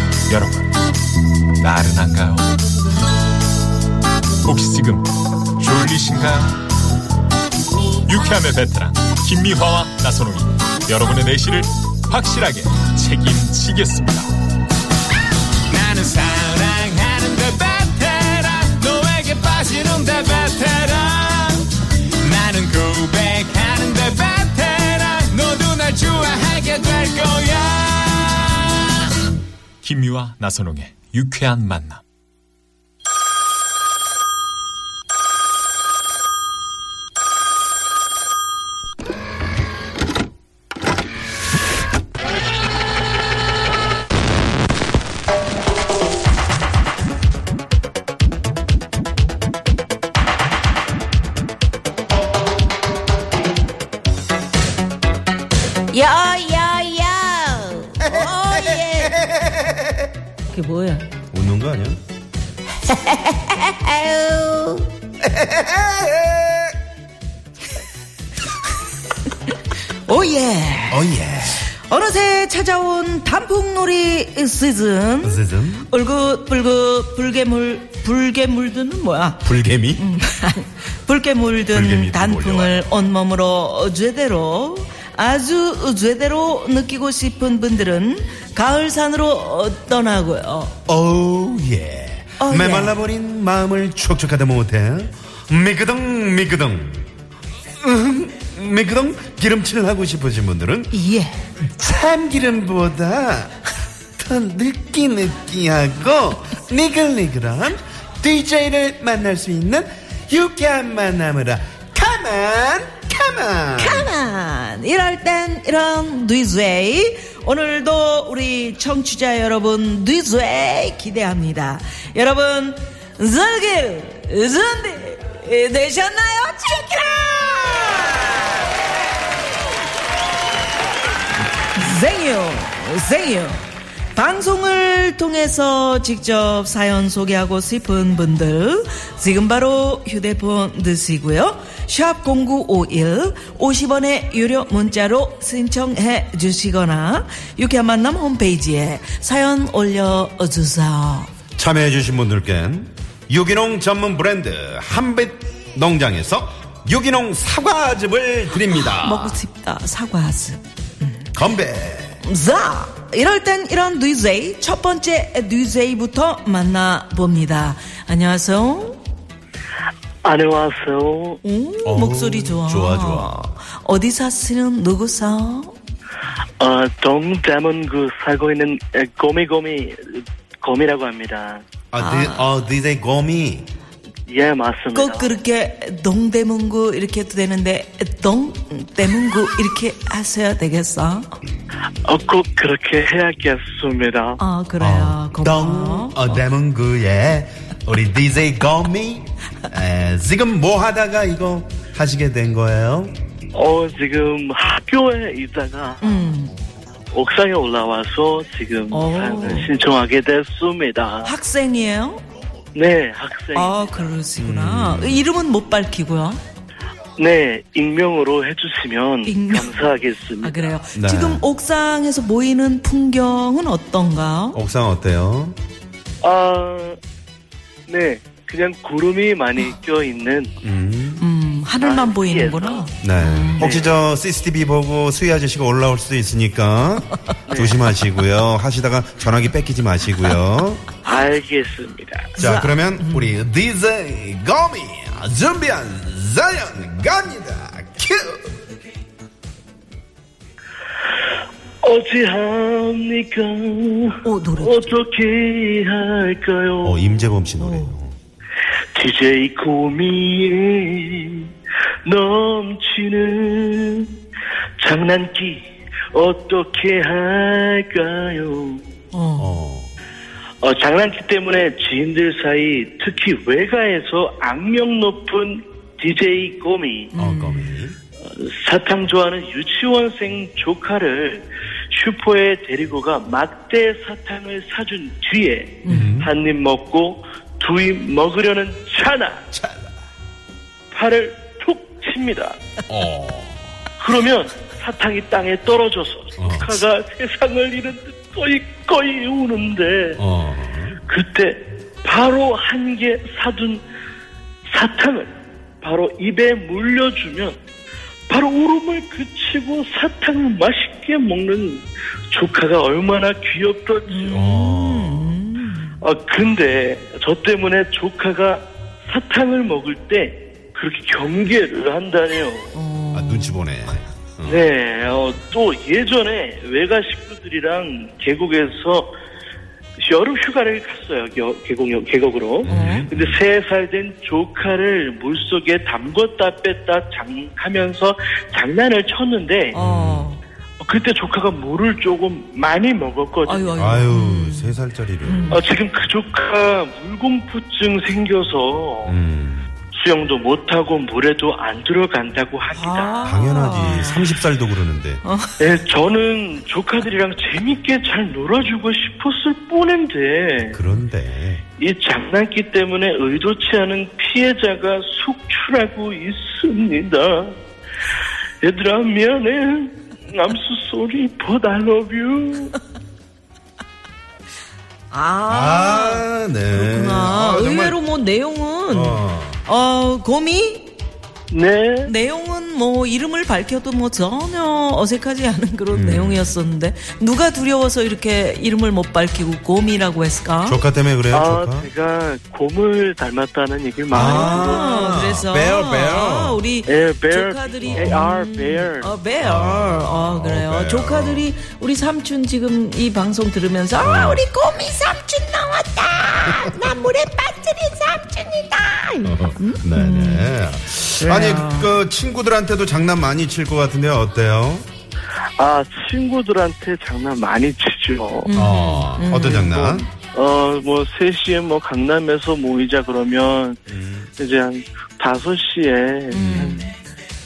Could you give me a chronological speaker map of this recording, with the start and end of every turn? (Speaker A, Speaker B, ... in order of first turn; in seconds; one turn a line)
Speaker A: 0.3-0.7
Speaker A: 1.6-2.5
Speaker A: 4.5-5.1
Speaker A: 5.6-6.6
Speaker A: 8.1-14.3
Speaker B: 15.7-21.6
Speaker A: 17.4-18.2
Speaker A: 18.8-21.5
Speaker A: 22.3-24.7
Speaker B: 22.8-28.7
Speaker A: 29.8-32.0
Speaker C: 55.9-59.2
Speaker D: 58.0-60.1
Speaker C: 60.5-61.0
Speaker D: 61.3-62.0
Speaker C: 62.8-64.9
Speaker D: 65.2-66.8
Speaker C: 70.0-71.2
Speaker D: 70.9-71.7
Speaker C: 71.8-90.8
Speaker D: 75.2-75.9
Speaker D: 79.4-80.0
Speaker D: 81.7-82.9
Speaker D: 90.9-97.1
Speaker C: 92.4-93.0
Speaker D: 97.8-100.9
Speaker C: 100.9-101.4
Speaker D: 101.8-103.5
Speaker D: 104.2-114.1
Speaker C: 113.8-128.5
Speaker C: 131.7-133.6
Speaker C: 134.1-151.3
Speaker D: 151.6-159.4
Speaker C: 158.9-161.2
Speaker D: 161.3-162.2
Speaker C: 162.2-169.0
Speaker E: 170.2-171.4
Speaker C: 171.4-175.8
Speaker D: 171.8-173.5
Speaker E: 176.6-181.6
Speaker D: 181.9-183.7
Speaker C: 182.0-182.5
Speaker E: 184.3-185.3
Speaker C: 184.9-191.4
Speaker E: 192.1-194.4
Speaker C: 194.4-196.4
Speaker D: 194.8-203.2
Speaker E: 203.5-206.3
Speaker C: 206.0-206.6
Speaker E: 207.1-211.3
Speaker C: 208.9-209.7
Speaker C: 211.2-212.2
Speaker E: 212.7-214.2
Speaker C: 213.5-216.4
Speaker D: 214.4-215.3
Speaker E: 217.2-220.8
Speaker C: 219.3-219.8
Speaker C: 220.4-224.6
Speaker D: 220.9-221.4
Speaker D: 224.5-225.6
Speaker E: 226.2-227.0
Speaker E: 227.9-230.5
Speaker D: 230.6-231.2
Speaker C: 231.2-233.8
Speaker E: 231.8-232.9
Speaker D: 233.0-240.9
Speaker E: 233.6-233.9
Speaker E: 237.5-237.9
Speaker E: 241.0-242.3
Speaker C: 242.4-243.4
Speaker D: 242.4-248.6
Speaker E: 251.8-257.1
Speaker C: 254.2-254.9
Speaker D: 256.8-258.2
Speaker C: 257.6-257.9
Speaker E: 258.9-261.5
Speaker E: 262.1-264.1
Speaker E: 264.8-268.8
Speaker C: 269.1-269.6
Speaker D: 269.4-269.9
Speaker E: 270.6-277.1
Speaker C: 277.1-277.8
Speaker D: 277.2-278.0
Speaker E: 278.2-289.4
Speaker C: 285.9-286.2
Speaker D: 285.9-286.3
Speaker D: 289.5-289.9
Speaker E: 290.9-292.6
Speaker D: 292.9-293.8
Speaker E: 294.0-300.2
Speaker D: 296.4-296.8
Speaker D: 300.2-301.0
Speaker E: 301.1-303.8
Speaker E: 304.7-307.6
Speaker E: 308.3-314.4
Speaker C: 314.1-316.0
Speaker D: 314.3-315.4
Speaker E: 316.0-322.7
Speaker C: 322.7-323.6
Speaker D: 323.1-324.7
Speaker E: 324.5-329.1
Speaker E: 330.0-339.8
Speaker D: 332.6-333.4
Speaker C: 332.7-333.1
Speaker C: 339.7-340.4
Speaker D: 339.8-340.3
Speaker E: 340.8-343.8
Speaker C: 343.5-345.6
Speaker D: 343.8-345.5
Speaker E: 345.5-349.2
Speaker D: 349.1-349.7
Speaker E: 349.9-353.1
Speaker C: 352.7-354.4
Speaker D: 353.2-355.2
Speaker C: 355.2-355.6
Speaker E: 355.6-360.8
Speaker D: 360.7-361.6
Speaker E: 361.8-367.6
Speaker E: 368.6-372.8
Speaker C: 375.1-380.9
Speaker D: 375.5-378.0
Speaker D: 378.9-379.6
Speaker E: 381.5-382.1
Speaker C: 382.1-390.8
Speaker D: 385.9-386.5
Speaker D: 390.6-391.9
Speaker E: 391.3-395.1
Speaker D: 394.1-396.6
Speaker C: 394.1-410.5
Speaker E: 396.9-399.1
Speaker D: 397.9-398.2
Speaker D: 399.4-401.5
Speaker D: 404.0-404.4
Speaker D: 409.2-414.9
Speaker C: 411.2-411.9
Speaker E: 415.6-418.5
Speaker C: 418.5-420.0
Speaker D: 418.5-420.1
Speaker E: 420.2-423.8
Speaker D: 423.9-424.3
Speaker E: 424.4-426.9
Speaker C: 426.3-426.9
Speaker D: 426.4-426.8